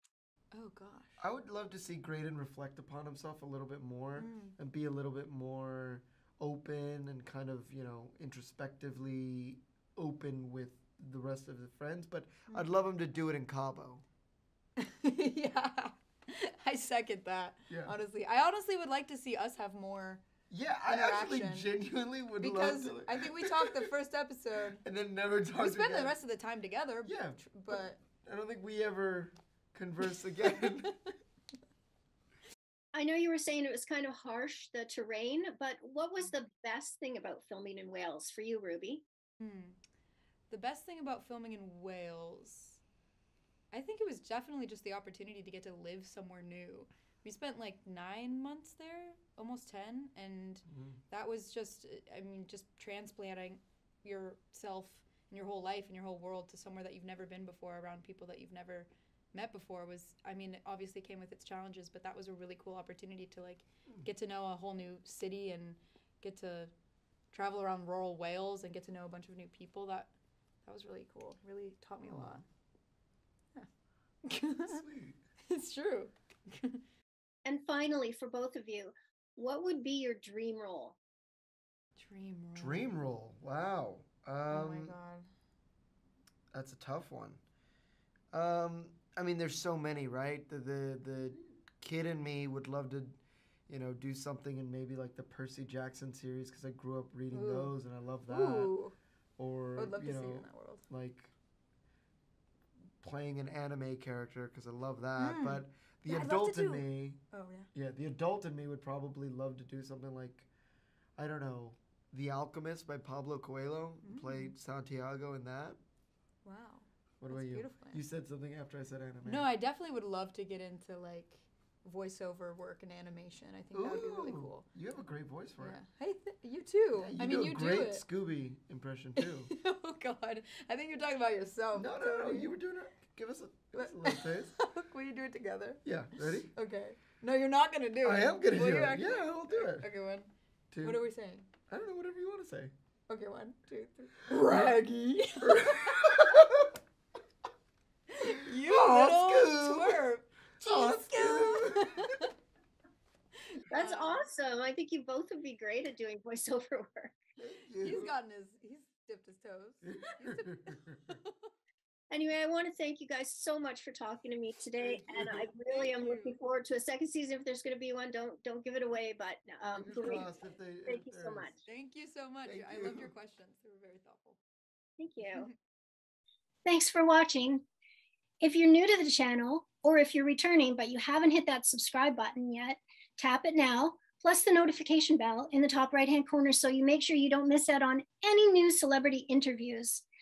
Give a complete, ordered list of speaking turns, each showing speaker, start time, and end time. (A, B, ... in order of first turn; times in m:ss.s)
0:00.5-0:01.2 A
0:01.2-0:14.0 B
0:04.2-0:04.6 A
0:12.5-0:12.7 A
0:14.8-0:20.2 A
0:17.7-0:17.9 B
0:20.5-0:23.9 B
0:20.8-0:21.7 A
0:22.4-0:24.8 A
0:24.8-0:26.2 B
0:25.6-0:28.0 A
0:27.0-0:31.0 B
0:32.9-0:39.0 C
0:39.4-0:39.8 A
0:40.5-0:42.8 A
0:43.7-1:06.7 A
0:50.7-0:51.0 B
1:07.3-1:10.1 A
1:10.6-1:12.5 A
1:12.0-1:12.4 B
1:14.2-1:14.8 A
1:14.7-1:15.2 B
1:15.5-1:16.8 A
1:17.4-1:21.0 C
1:22.0-1:22.9 A
1:22.6-1:25.0 B
1:24.5-1:25.3 A
1:26.5-1:27.4 B
1:28.3-1:38.7 B
1:37.3-1:37.8 A
1:38.3-1:39.0 A
1:39.4-1:41.3 B
1:39.8-1:40.8 A
1:43.0-1:47.2 B
1:45.2-1:47.7 A
1:47.7-1:50.5 B
1:51.2-1:55.8 B
1:54.0-1:54.6 A
1:56.4-1:58.0 A
1:57.2-1:59.5 B
1:59.2-2:04.7 A
2:03.7-2:05.8 B
2:05.6-2:08.0 A
2:06.9-2:09.5 B
2:09.2-2:12.5 A
2:11.7-2:14.5 B
2:13.8-2:20.3 A
2:15.8-2:16.5 B
2:18.0-2:19.9 B
2:20.7-2:21.0 B
2:20.8-2:21.5 A
2:21.7-2:22.7 B
2:23.1-2:26.5 A
2:25.4-2:26.6 B
2:28.1-2:32.3 A
2:28.5-2:30.0 B
2:30.6-2:32.1 B
2:33.6-2:34.3 A
2:33.7-2:37.2 C
2:37.4-2:38.1 B
2:37.8-2:41.5 A
2:39.8-2:41.2 B
2:42.1-2:50.3 C
2:44.8-2:45.5 B
2:45.7-2:46.4 A
2:49.7-2:51.6 B
2:50.9-2:51.6 C
2:51.7-2:54.4 A
2:52.4-2:53.1 B
2:55.0-2:55.5 C
2:55.3-2:55.6 A
2:56.6-2:57.6 C
2:58.4-3:10.0 C